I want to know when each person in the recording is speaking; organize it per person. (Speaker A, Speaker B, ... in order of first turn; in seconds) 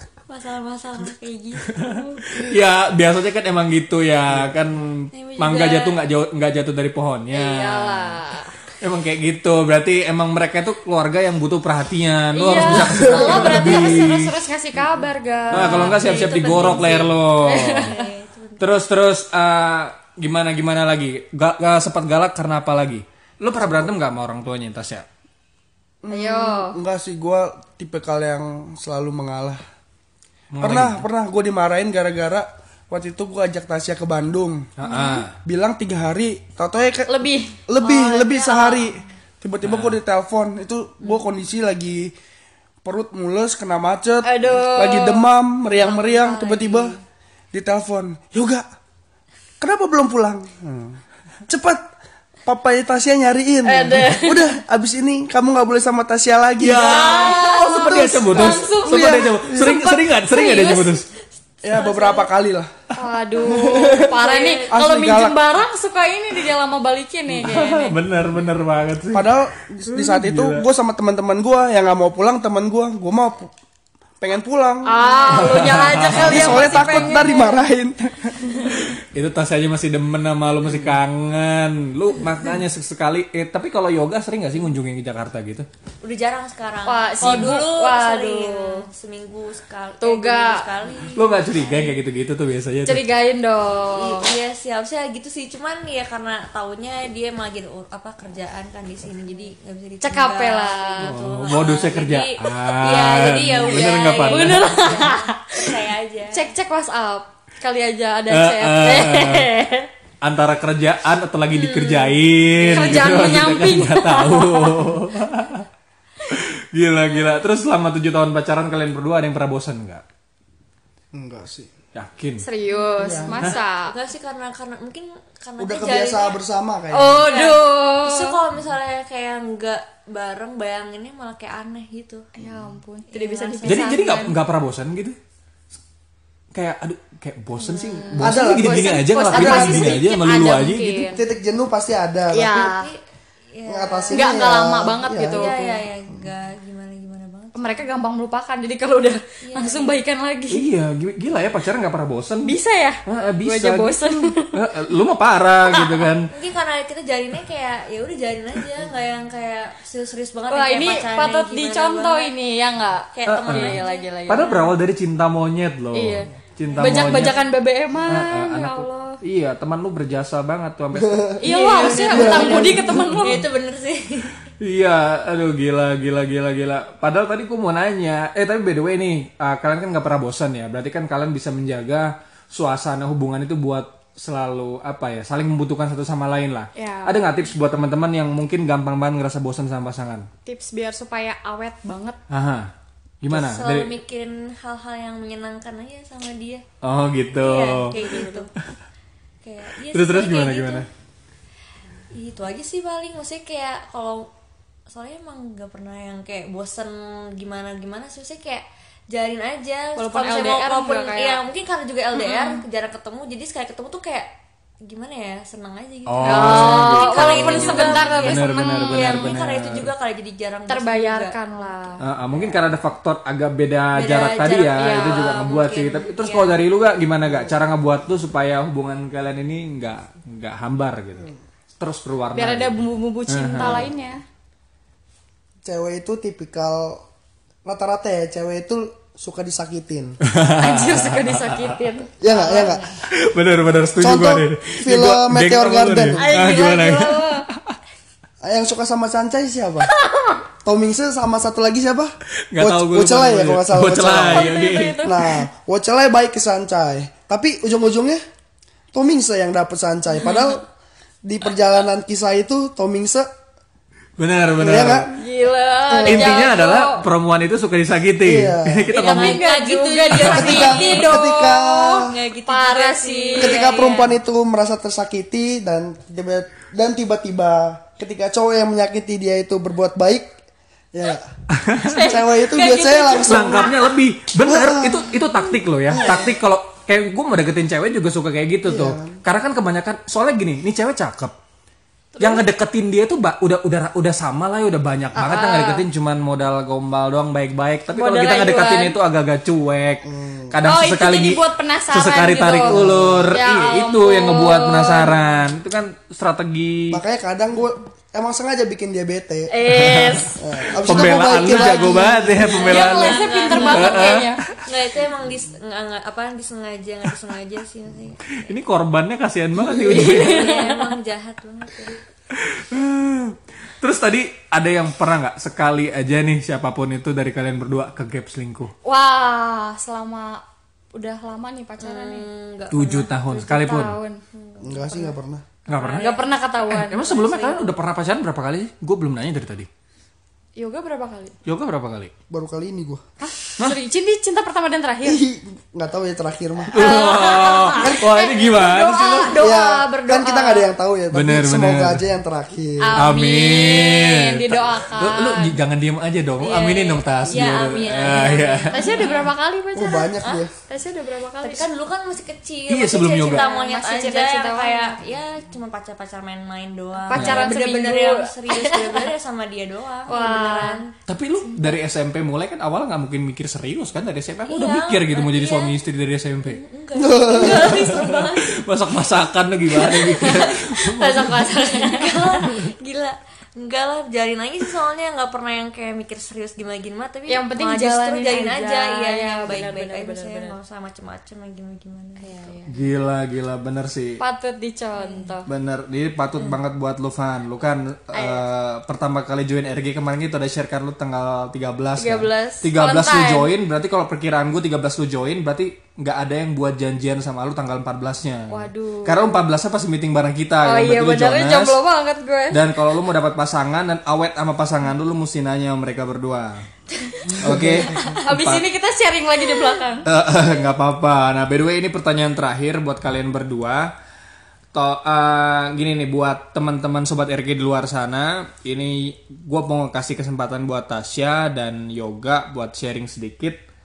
Speaker A: 0.3-2.1, 5.1-6.0, 15.5-18.8, 37.8-39.0, 45.8-47.0, 56.8-57.5, 61.6-62.2, 63.7-64.7, 86.0-91.9, 93.9-106.5, 111.5-113.6, 122.7-126.4, 127.2-132.3, 133.1-134.0, 137.6-138.2, 142.5-143.0, 143.5-144.5, 145.2-147.9, 149.4-150.0, 156.3-162.3, 163.1-164.8, 166.7-167.4, 171.5-174.3, 193.3-196.6, 197.4-198.5, 199.4-200.9, 202.1-204.3, 204.9-214.3, 214.8-222.7, 223.9-226.6, 246.6-246.9, 268.9-274.1, 312.4-318.4, 319.9-322.0, 331.8-333.1, 334.3-335.1, 335.7-337.7, 356.4-359.3, 361.4-370.9, 374.5-375.7, 376.4-378.6, 379.7-392.5, 394.9-395.3
Speaker B: 1.9-2.2, 7.3-8.5, 12.3-16.1, 17.4-18.1, 26.1-26.8, 34.9-35.2, 37.1-37.5, 44.2-45.2, 53.6-54.5, 56.7-61.0, 63.0-68.0, 74.8-77.6, 86.9-88.8, 90.0-90.6, 92.9-94.2, 100.0-101.2, 103.7-105.7, 106.3-109.9, 112.6-115.0, 122.4-123.9, 126.9-128.3, 132.4-134.3, 138.1-141.2, 142.3-142.9, 144.1-145.8, 147.5-150.7, 152.4-154.5, 155.7-156.1, 160.5-164.5, 165.9-169.2, 171.4-173.4, 186.7-187.1, 190.4-192.2, 197.9-198.5, 209.9-211.4, 212.1-212.6, 216.2-219.3, 220.7-222.0, 224.7-225.3, 232.3-234.2, 240.6-242.9, 246.2-247.4, 250.1-250.4, 254.1-255.4, 265.1-267.0, 268.9-274.1, 281.8-283.9, 292.1-292.4, 295.1-295.8, 297.9-298.9, 300.6-302.8, 303.3-305.2, 309.5-311.9, 312.6-314.5, 319.8-320.8, 328.8-330.4, 330.9-332.3, 333.2-334.2, 335.9-337.2, 340.6-341.3, 343.2-345.2, 346.7-350.7, 352.8-355.5, 358.7-361.6, 363.1-365.0, 367.0-369.1, 370.1-370.8, 371.4-371.8, 380.1-382.6, 387.3-390.6, 392.2-392.7, 394.2-395.5, 398.1-398.4, 402.0-403.5, 408.5-409.2, 410.6-412.7, 417.0-417.6, 418.2-420.1
Speaker C: 2.2-8.2, 8.8-14.4, 15.5-17.9, 18.6-25.1, 30.5-31.0, 34.8-35.3, 39.6-40.0, 56.6-61.0, 67.3-69.3, 69.9-70.6, 75.3-77.2, 78.9-85.7, 91.1-93.1, 101.0-105.1, 108.3-109.5, 110.2-115.7, 116.2-120.0, 121.9-122.4, 133.6-135.2, 136.5-141.1, 150.5-156.3, 163.2-167.4, 168.0-171.4, 174.6-190.3, 192.3-193.9, 196.8-197.9, 199.9-200.9, 216.1-219.9, 222.0-233.8, 240.2-241.7, 243.1-247.7, 252.5-255.0, 264.2-265.1, 266.0-269.4, 281.5-282.0, 283.2-291.3, 292.2-307.0, 309.6-314.3, 318.3-320.6, 322.3-328.7, 332.7-333.9, 335.7-336.1, 336.7-339.7, 341.4-342.1, 346.7-349.4, 351.1-352.0, 352.9-359.1, 362.7-363.4, 367.1-367.5, 371.1-376.6, 377.4-381.3, 392.7-394.2, 395.5-411.8, 412.5-416.6, 417.3-418.6, 420.0-423.9, 424.7-433.6
Speaker D: 12.8-13.8, 26.0-29.6, 30.6-34.7, 35.4-42.1, 42.8-47.0, 47.5-48.6, 49.6-51.8, 52.5-57.4, 58.2-60.1, 61.6-62.7, 63.4-65.4, 69.1-73.5, 74.2-78.8, 121.1-121.7, 123.0-123.6, 125.6-127.3, 138.2-142.7, 143.7-145.8, 170.9-173.2, 235.6-237.0, 237.6-240.2, 242.2-242.9, 244.0-246.3, 248.4-249.9, 250.6-258.2, 258.9-260.6, 261.2-263.3, 264.6-265.2, 265.9-266.5, 268.2-268.9, 270.2-272.1, 273.4-280.3, 280.9-281.3, 281.9-283.7, 284.4-285.3, 285.9-286.4, 288.6-289.2, 300.0-300.6, 302.6-303.3, 306.9-309.5, 310.4-312.6, 334.6-335.4, 342.3-343.0, 345.0-347.2, 349.3-353.1, 359.7-360.5, 376.9-378.1, 417.3-418.1